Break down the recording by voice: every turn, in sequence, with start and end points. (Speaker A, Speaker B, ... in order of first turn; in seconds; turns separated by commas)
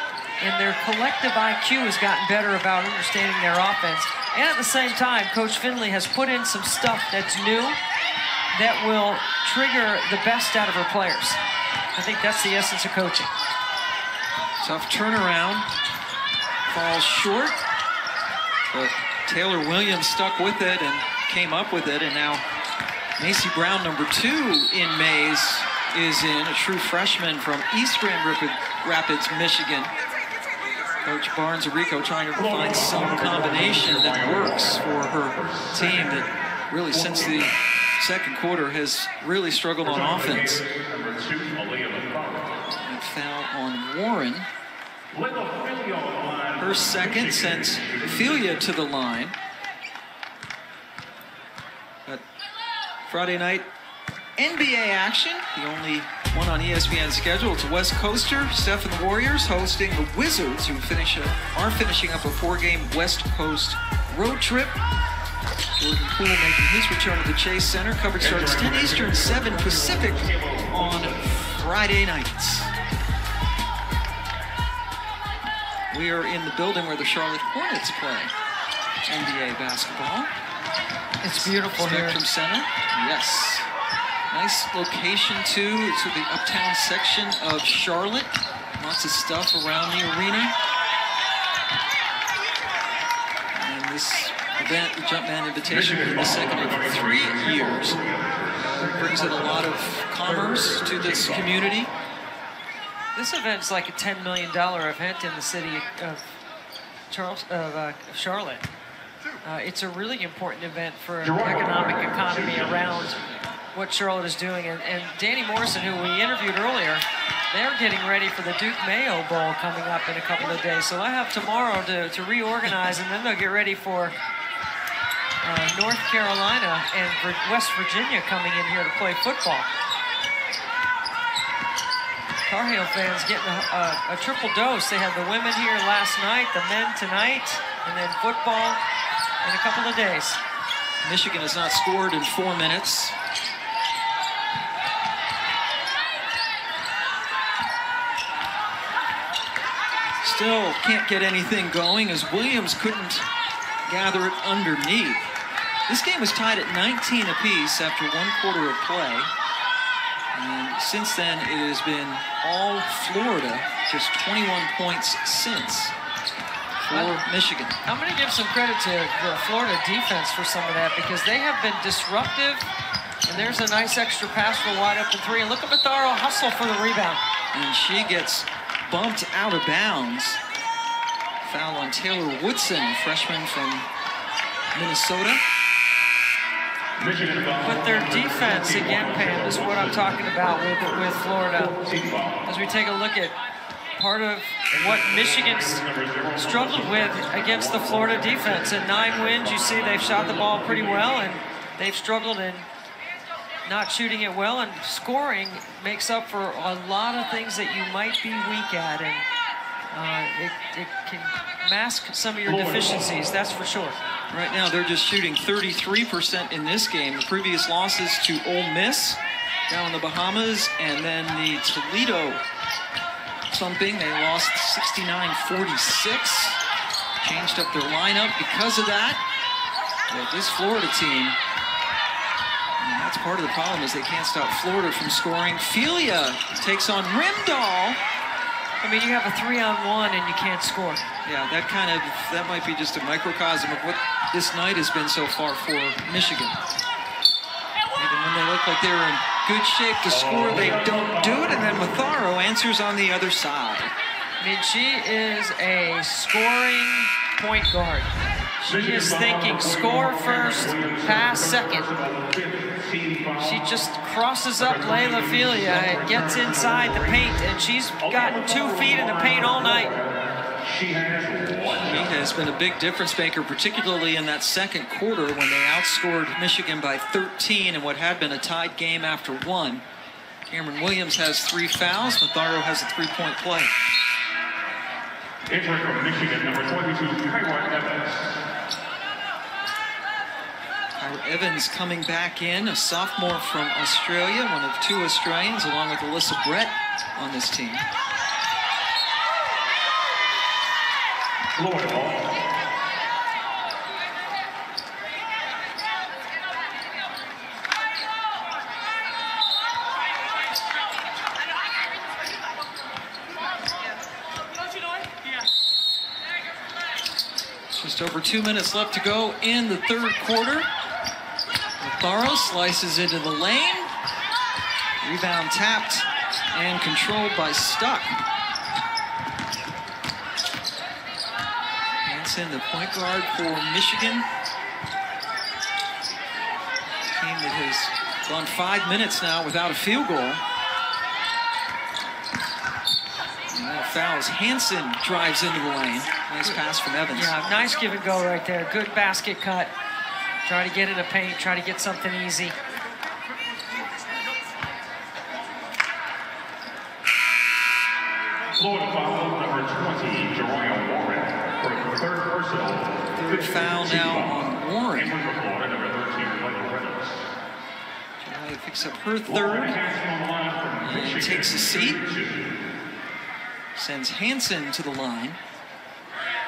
Speaker A: 0.4-7.8, Speaker A: 8.5-11.4, Speaker A: 11.9-13.3, Speaker B: 14.6-15.7, Speaker B: 16.7-17.6, Speaker B: 18.7-22.4, Speaker B: 23.2-29.9, Speaker B: 31.0-40.6, Speaker C: 32.4-36.2, Speaker C: 36.9-37.5, Speaker C: 39.8-42.6, Speaker B: 42.8-44.5, Speaker C: 45.1-48.7, Speaker B: 46.6-49.4, Speaker B: 53.0-53.7, Speaker B: 54.4-64.8, Speaker B: 65.8-72.7, Speaker C: 68.2-71.3, Speaker B: 75.9-78.3, Speaker B: 79.0-80.3, Speaker A: 81.2-82.2, Speaker B: 81.3-83.7, Speaker B: 84.3-90.5, Speaker B: 93.5-98.0, Speaker C: 95.7-101.6, Speaker B: 98.5-101.9, Speaker A: 103.1-106.3, Speaker A: 107.1-108.7, Speaker A: 109.4-113.2, Speaker C: 111.2-113.2, Speaker A: 113.7-124.1, Speaker A: 125.4-129.7, Speaker A: 132.5-138.8, Speaker A: 139.4-140.4, Speaker B: 141.0-143.2, Speaker B: 150.2-153.3, Speaker B: 153.8-155.3, Speaker B: 155.9-159.3, Speaker B: 160.3-165.9, Speaker B: 166.8-167.8, Speaker A: 166.9-167.2, Speaker A: 167.8-172.7, Speaker A: 173.3-177.2, Speaker B: 177.5-180.4, Speaker B: 181.4-183.9, Speaker B: 184.7-185.4, Speaker C: 187.0-192.4, Speaker A: 187.6-191.8, Speaker A: 192.4-193.4, Speaker A: 193.9-195.8, Speaker C: 194.7-201.3, Speaker A: 196.3-202.7, Speaker A: 203.7-209.2, Speaker A: 209.9-214.0, Speaker C: 212.4-213.2, Speaker B: 214.3-222.4, Speaker B: 223.5-226.6, Speaker B: 227.2-229.2, Speaker B: 230.1-231.4, Speaker B: 232.8-238.0, Speaker A: 238.8-241.1, Speaker B: 241.2-246.6, Speaker B: 247.9-253.9, Speaker C: 250.1-251.8, Speaker A: 254.4-258.1, Speaker A: 258.6-261.9, Speaker C: 258.7-263.7, Speaker A: 263.4-269.9, Speaker C: 264.6-267.3, Speaker C: 268.0-270.1, Speaker C: 270.6-272.1, Speaker B: 271.6-279.8, Speaker B: 280.5-283.7, Speaker C: 285.4-288.4, Speaker B: 291.0-297.9, Speaker C: 301.6-302.3, Speaker B: 317.7-320.7, Speaker B: 321.8-323.9, Speaker B: 325.0-328.2, Speaker B: 332.0-334.3, Speaker B: 337.1-340.4, Speaker B: 343.5-347.3, Speaker A: 347.1-349.7, Speaker A: 350.4-352.6, Speaker C: 358.6-367.3, Speaker B: 363.2-365.1, Speaker B: 368.2-369.8, Speaker C: 369.2-372.6, Speaker B: 370.8-372.0, Speaker B: 373.7-375.4